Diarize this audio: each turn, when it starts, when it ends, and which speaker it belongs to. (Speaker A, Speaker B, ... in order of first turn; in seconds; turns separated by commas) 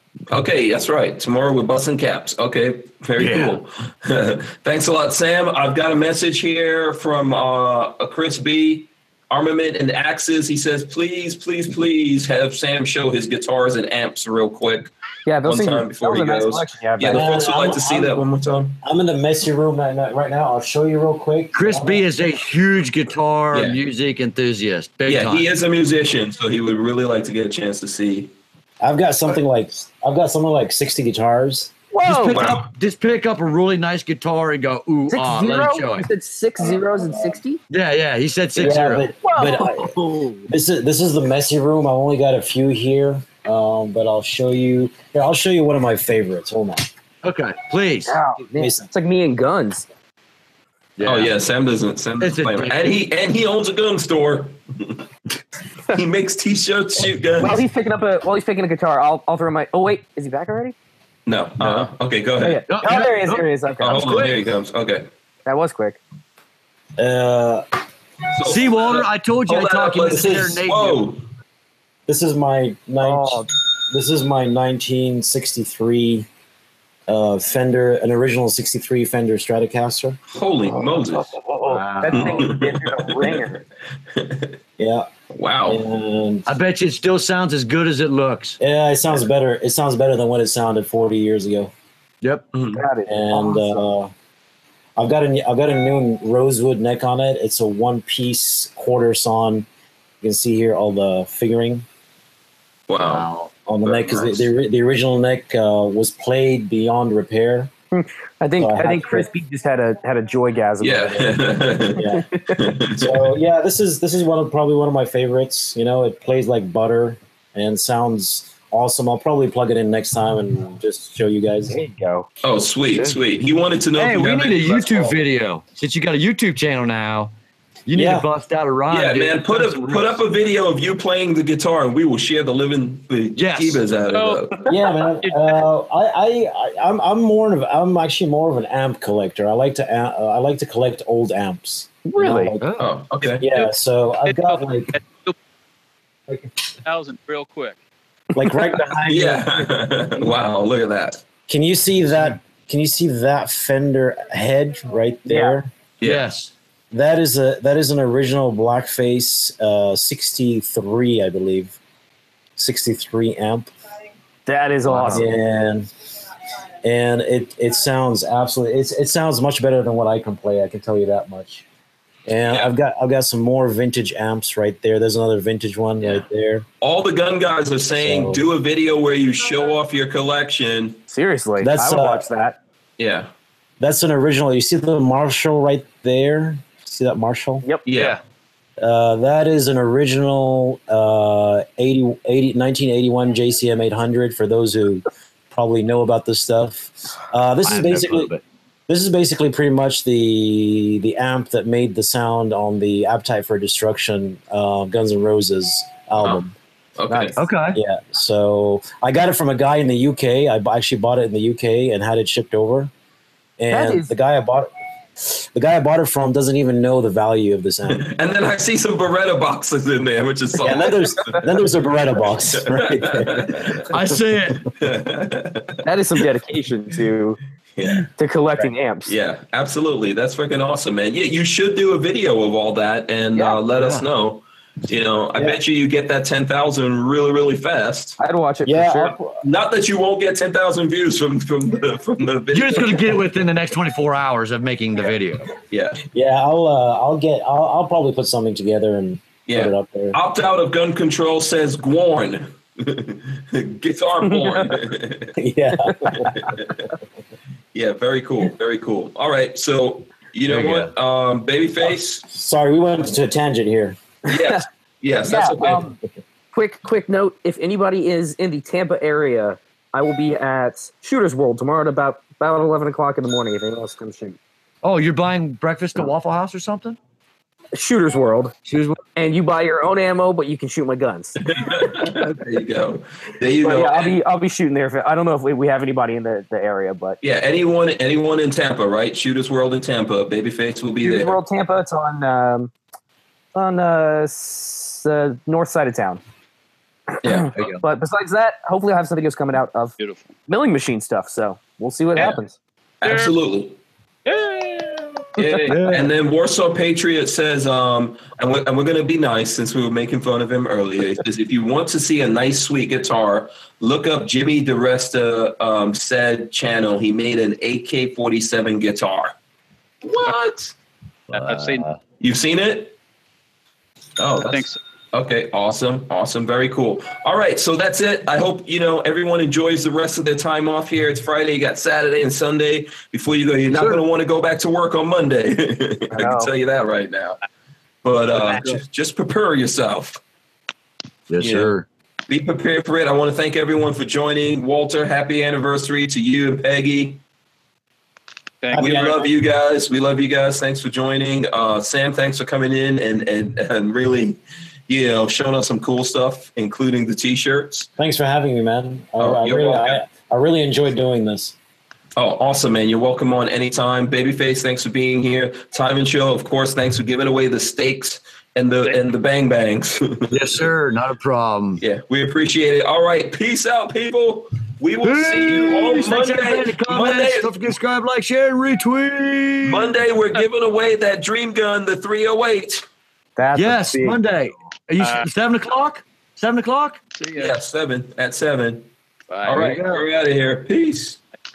Speaker A: 0.3-14.9, Speaker B: 3.2-3.6, Speaker C: 15.2-17.4, Speaker A: 15.4-18.8, Speaker D: 17.0-18.2, Speaker D: 18.8-22.0, Speaker B: 21.5-25.5, Speaker A: 23.5-23.8, Speaker A: 25.1-28.3, Speaker D: 28.8-31.7, Speaker C: 31.9-32.5, Speaker B: 32.0-36.1, Speaker A: 32.1-32.7, Speaker C: 35.1-37.6, Speaker B: 37.7-39.1, Speaker C: 38.6-40.5, Speaker D: 38.6-39.9, Speaker D: 40.5-46.9, Speaker B: 47.2-48.2, Speaker C: 48.0-49.9, Speaker D: 48.5-48.9, Speaker B: 51.0-51.3, Speaker A: 51.0-55.0, Speaker B: 52.2-52.9, Speaker A: 55.9-57.6, Speaker C: 57.4-60.7, Speaker A: 61.2-62.6, Speaker C: 62.4-64.2, Speaker B: 62.7-63.4, Speaker A: 63.8-65.1, Speaker B: 64.0-64.4, Speaker C: 65.5-66.0, Speaker D: 67.0-67.7, Speaker A: 68.3-71.2, Speaker B: 68.4-71.1, Speaker D: 72.1-76.2, Speaker C: 73.0-73.4, Speaker D: 77.1-80.2, Speaker A: 80.3-81.3, Speaker C: 80.7-83.6, Speaker B: 81.6-82.4, Speaker A: 82.1-83.6, Speaker A: 84.1-84.6, Speaker D: 84.8-85.1, Speaker A: 85.3-85.8, Speaker D: 85.7-86.5, Speaker B: 86.5-88.6, Speaker D: 88.6-91.7, Speaker B: 92.2-92.5, Speaker A: 92.5-92.8, Speaker C: 92.7-93.8, Speaker D: 93.1-94.1, Speaker D: 95.0-99.7, Speaker D: 100.2-101.8, Speaker A: 102.9-103.3, Speaker B: 103.0-103.5, Speaker D: 103.7-107.7, Speaker A: 103.8-104.5, Speaker C: 108.0-111.4, Speaker D: 108.6-109.3, Speaker A: 110.8-113.3, Speaker D: 112.0-121.8, Speaker C: 112.1-112.5, Speaker C: 121.7-122.3, Speaker A: 122.4-125.2, Speaker B: 122.9-123.2, Speaker B: 124.0-127.3, Speaker B: 127.9-130.2, Speaker D: 127.9-128.3, Speaker A: 128.9-134.7, Speaker B: 133.3-133.8, Speaker E: 134.1-135.6, Speaker D: 134.7-142.6, Speaker C: 142.0-142.6, Speaker B: 142.6-142.9, Speaker A: 142.8-143.4, Speaker D: 143.4-144.9, Speaker E: 144.2-145.3, Speaker E: 146.7-147.8, Speaker D: 148.3-149.7, Speaker C: 148.4-148.8, Speaker A: 149.1-151.2, Speaker D: 151.5-155.7, Speaker C: 155.2-155.6, Speaker A: 156.0-156.2, Speaker B: 156.0-156.5, Speaker D: 156.9-161.8, Speaker D: 162.6-163.7, Speaker C: 164.4-165.3, Speaker D: 164.9-165.9, Speaker D: 166.8-171.6, Speaker D: 172.2-176.7, Speaker A: 176.8-181.0, Speaker D: 177.9-178.4, Speaker C: 181.1-182.6, Speaker D: 181.6-182.3, Speaker A: 183.0-183.3, Speaker D: 183.8-187.6, Speaker A: 187.8-188.2, Speaker D: 188.8-198.3, Speaker B: 197.6-198.4, Speaker D: 198.9-206.5, Speaker A: 206.9-207.4, Speaker B: 207.3-207.8, Speaker D: 207.7-212.9, Speaker D: 213.6-214.7, Speaker C: 213.7-214.1, Speaker D: 215.2-218.1, Speaker A: 217.9-221.3, Speaker D: 220.6-224.2, Speaker C: 220.9-221.4, Speaker A: 222.5-223.8, Speaker B: 223.9-224.7, Speaker A: 224.7-225.8, Speaker C: 225.8-227.4, Speaker A: 227.7-228.1, Speaker C: 228.2-229.1, Speaker A: 229.1-238.2, Speaker C: 233.3-233.6, Speaker B: 233.8-234.0, Speaker C: 238.2-239.2, Speaker D: 238.6-239.4, Speaker A: 239.3-243.3, Speaker B: 242.5-245.5, Speaker A: 245.7-246.0, Speaker D: 246.1-250.2, Speaker A: 249.4-255.3, Speaker C: 254.2-254.7, Speaker D: 255.4-256.3, Speaker A: 256.3-256.9, Speaker A: 257.7-262.2, Speaker B: 260.5-260.9, Speaker D: 262.2-264.1, Speaker A: 264.3-265.9, Speaker C: 265.2-266.0, Speaker C: 266.5-274.4, Speaker B: 274.8-277.0, Speaker C: 277.7-278.5, Speaker B: 278.6-279.0, Speaker C: 279.1-281.4, Speaker A: 281.4-284.2, Speaker C: 283.6-287.2, Speaker A: 287.2-291.4, Speaker C: 291.0-292.7, Speaker C: 293.5-296.2, Speaker A: 297.2-297.6, Speaker C: 297.2-299.9, Speaker B: 297.5-297.8, Speaker E: 300.0-300.4, Speaker C: 300.5-302.6, Speaker A: 303.0-303.8, Speaker E: 303.0-303.3, Speaker E: 304.2-305.3, Speaker A: 305.4-319.3, Speaker C: 305.4-305.8, Speaker B: 305.7-306.1, Speaker A: 320.0-320.7, Speaker B: 321.3-322.0, Speaker E: 321.3-321.8, Speaker A: 322.2-322.9, Speaker A: 324.2-337.4, Speaker E: 324.4-324.8, Speaker B: 333.7-334.0, Speaker C: 336.1-336.5, Speaker A: 338.0-340.2, Speaker B: 341.3-341.9, Speaker A: 341.4-341.7, Speaker A: 342.3-347.2, Speaker E: 348.6-349.3, Speaker A: 348.7-357.9, Speaker D: 358.0-361.5, Speaker A: 359.2-360.0, Speaker A: 362.1-370.6, Speaker B: 370.3-371.8, Speaker A: 371.8-377.6, Speaker B: 375.0-379.9, Speaker A: 379.6-382.8, Speaker C: 383.4-384.2, Speaker B: 383.5-387.0, Speaker E: 385.0-385.3, Speaker E: 387.1-387.5, Speaker A: 387.4-388.9, Speaker E: 389.3-389.8, Speaker A: 389.4-391.2, Speaker B: 389.5-390.0